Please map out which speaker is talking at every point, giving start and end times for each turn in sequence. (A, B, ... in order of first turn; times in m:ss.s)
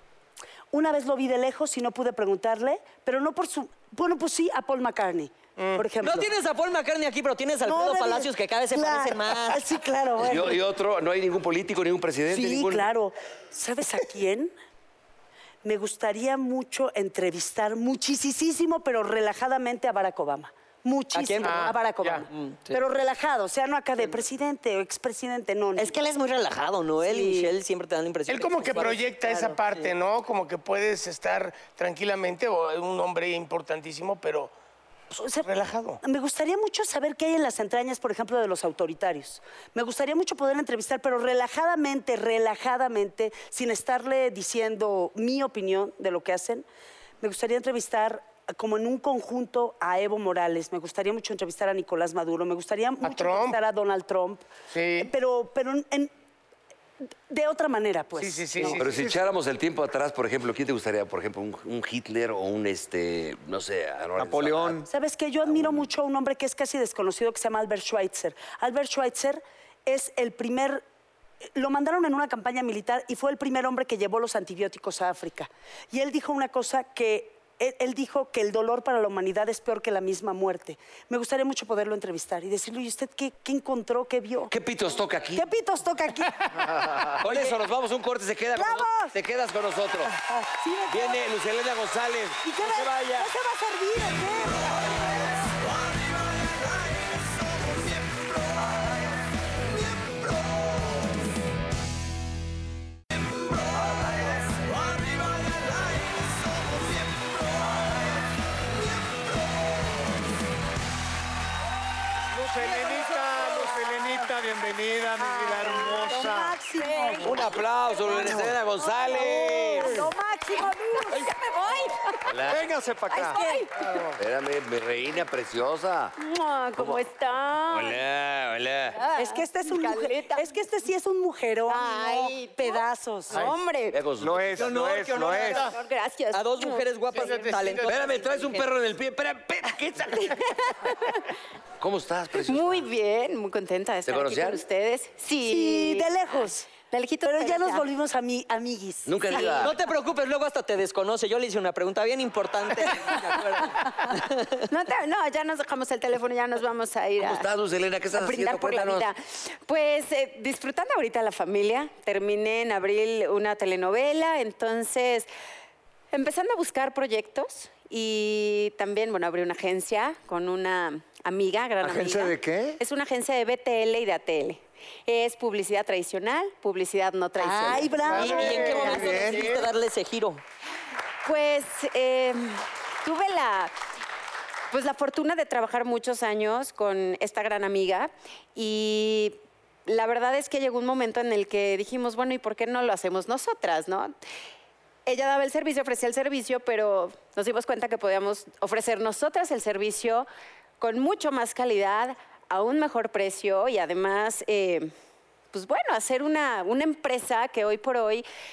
0:00.7-0:06.3 A
0:05.6-0:05.8 B
0:06.0-0:09.6 C
0:07.6-0:10.6 A
0:10.2-0:12.9 D
0:12.3-0:14.5 A
0:15.6-0:25.9 A
0:21.1-0:21.7 C
0:21.4-0:22.2 B
0:22.3-0:22.8 C
0:25.8-0:29.9 C
0:27.0-0:27.5 A
0:28.3-0:34.5 B
0:35.2-0:35.5 A
0:35.4-0:36.0 B
0:36.0-0:46.6 A
0:47.2-0:54.4 A
0:53.0-0:53.6 B
0:54.7-0:55.1 B
0:55.0-0:56.1 A
0:57.3-0:58.9 A
0:58.2-0:58.9 B
0:58.7-1:04.8 D
0:58.9-0:59.2 E
1:04.2-1:04.9 E
1:04.9-1:10.8 A
1:05.4-1:05.9 D
1:11.6-1:24.5 A
1:24.5-1:25.4 D
1:25.4-1:27.6 A
1:26.7-1:30.1 D
1:28.5-1:29.1 A
1:30.1-1:31.2 A
1:30.9-1:33.3 D
1:32.4-1:35.3 A
1:52.3-1:56.6 E
1:53.5-1:53.8 F
1:55.2-1:57.5 A
1:55.4-1:58.4 F
1:57.2-2:00.0 D
1:58.1-1:58.6 A
1:59.1-2:01.3 A
1:59.1-2:02.3 F
2:02.2-2:02.7 D
2:02.5-2:03.4 E
2:03.1-2:03.7 F
2:03.3-2:03.6 A
2:04.2-2:06.1 D
2:06.2-2:08.0 F
2:06.7-2:07.0 D
2:07.7-2:09.0 D
2:09.0-2:10.4 F
2:09.1-2:13.5 A
2:11.7-2:14.0 F
2:13.9-2:14.7 D
2:14.2-2:15.7 E
2:14.6-2:15.7 C
2:15.1-2:17.3 F
2:16.3-2:18.6 C
2:17.1-2:18.2 B
2:17.9-2:20.4 D
2:20.2-2:21.2 F
2:21.8-2:22.8 D
2:22.4-2:27.8 F
2:24.0-2:24.6 D
2:25.4-2:29.6 A
2:29.1-2:29.8 D
2:29.3-2:29.7 F
2:29.6-2:34.6 C
2:34.7-2:37.5 F
2:37.2-2:39.1 D
2:38.1-2:45.3 F
2:46.1-2:58.0 F
2:51.8-2:52.8 E
2:57.4-2:59.2 A
2:58.0-2:59.7 B
2:58.1-3:00.4 C
2:58.7-2:59.0 F
2:58.8-2:59.4 E
3:01.2-3:03.7 F
3:04.7-3:14.1 F
3:15.0-3:20.3 F
3:20.8-3:24.9 F
3:25.5-3:28.2 F